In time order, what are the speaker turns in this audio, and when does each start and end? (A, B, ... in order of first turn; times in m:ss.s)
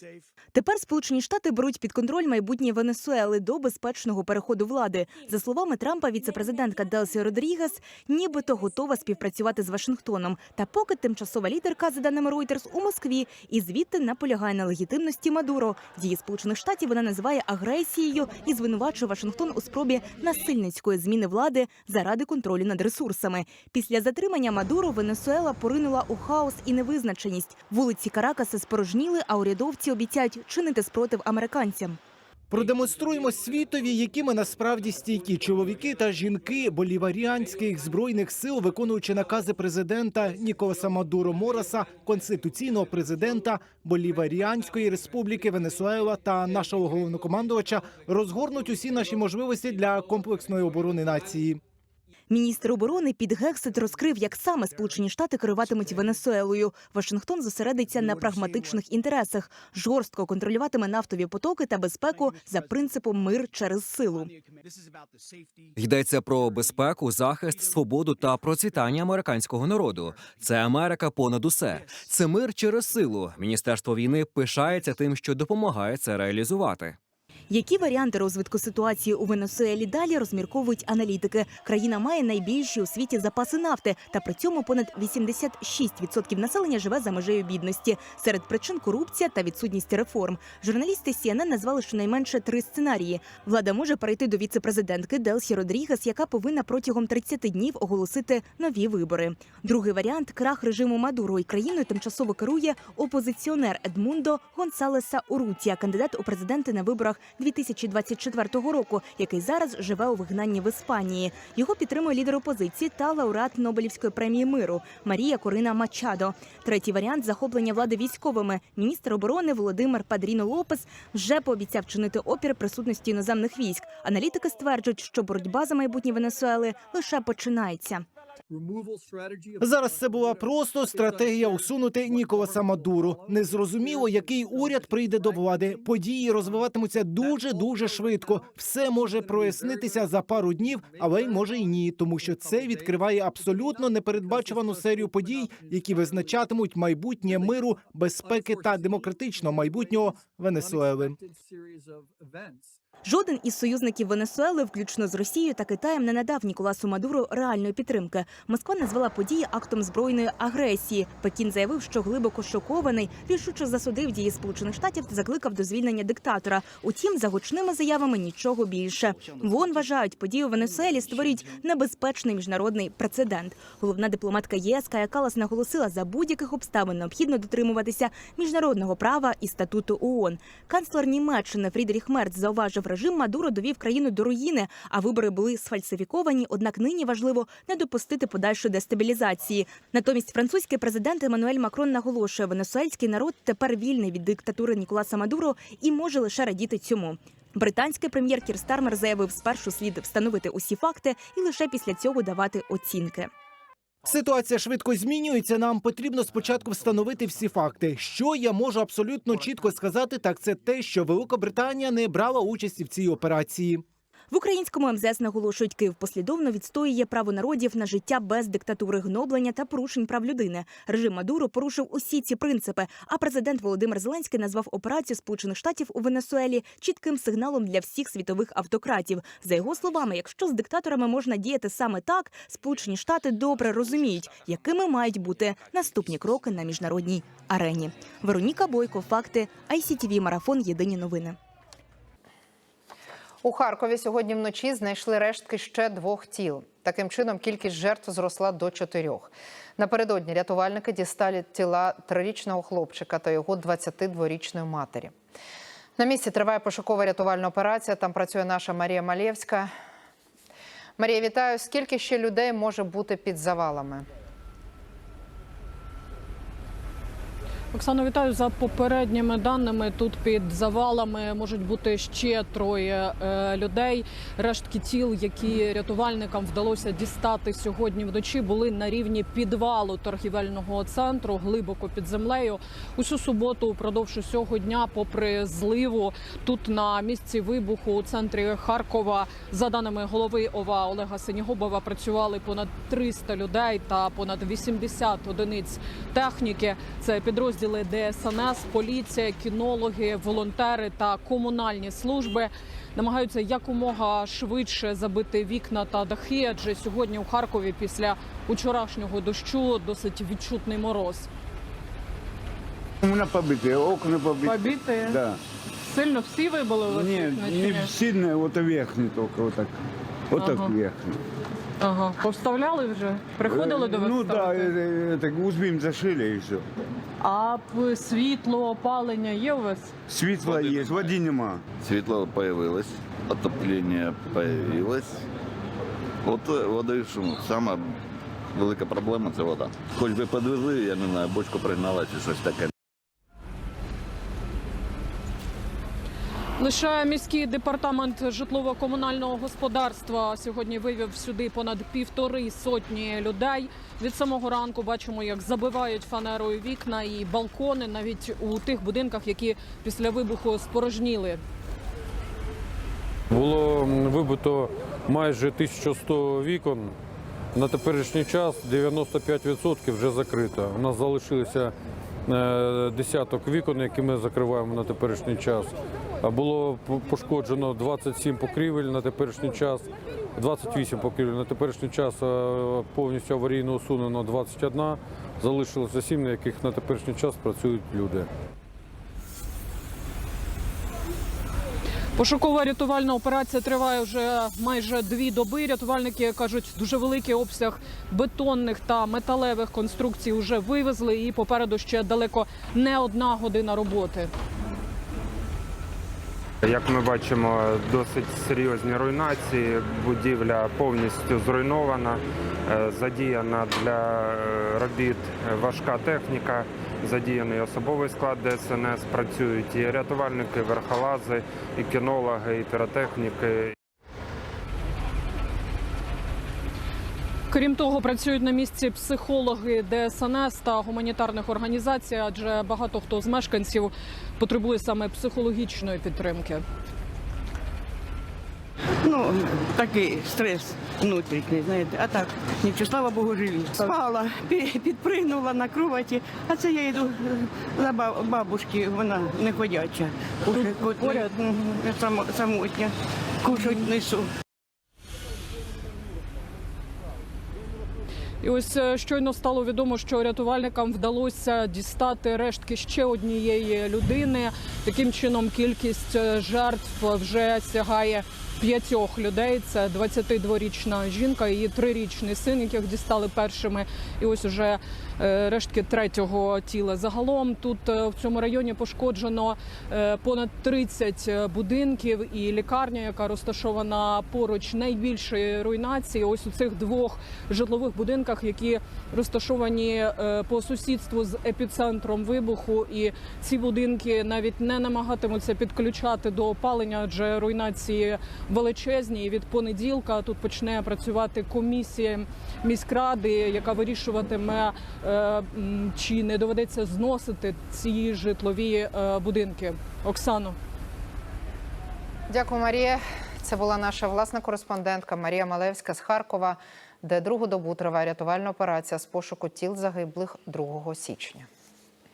0:00.5-0:32.0 A
0:32.5-0:51.6 B
0:52.3-1:04.3 A
1:05.8-1:17.0 C
1:17.5-2:08.0 A
2:09.6-2:31.2 B
2:33.0-3:23.3 A
3:24.0-3:33.8 B
3:34.3-4:01.4 A
4:03.4-4:15.1 D
4:16.0-4:19.7 D
4:21.0-4:24.1 D
4:27.7-5:11.3 E
5:13.0-5:15.4 F
5:14.4-5:15.2 E
5:15.8-5:17.9 E
5:16.9-5:19.8 F
5:20.3-5:21.2 F
5:20.4-5:20.7 E
5:21.8-5:24.8 E
5:23.4-5:26.6 F
5:27.2-5:29.9 E
5:30.1-5:31.7 F
5:30.4-5:31.2 G
5:31.7-5:35.2 G
5:36.2-5:38.0 G
5:38.5-5:42.7 G
5:46.6-6:01.4 E
6:03.3-6:06.9 H
6:07.5-6:11.7 H
6:12.2-6:28.3 H
6:32.2-6:44.3 E
6:46.6-7:03.7 I
7:07.5-7:16.6 E
7:19.0-7:34.3 J
7:30.5-7:31.3 E
7:38.4-8:30.6 E
8:32.3-8:41.5 D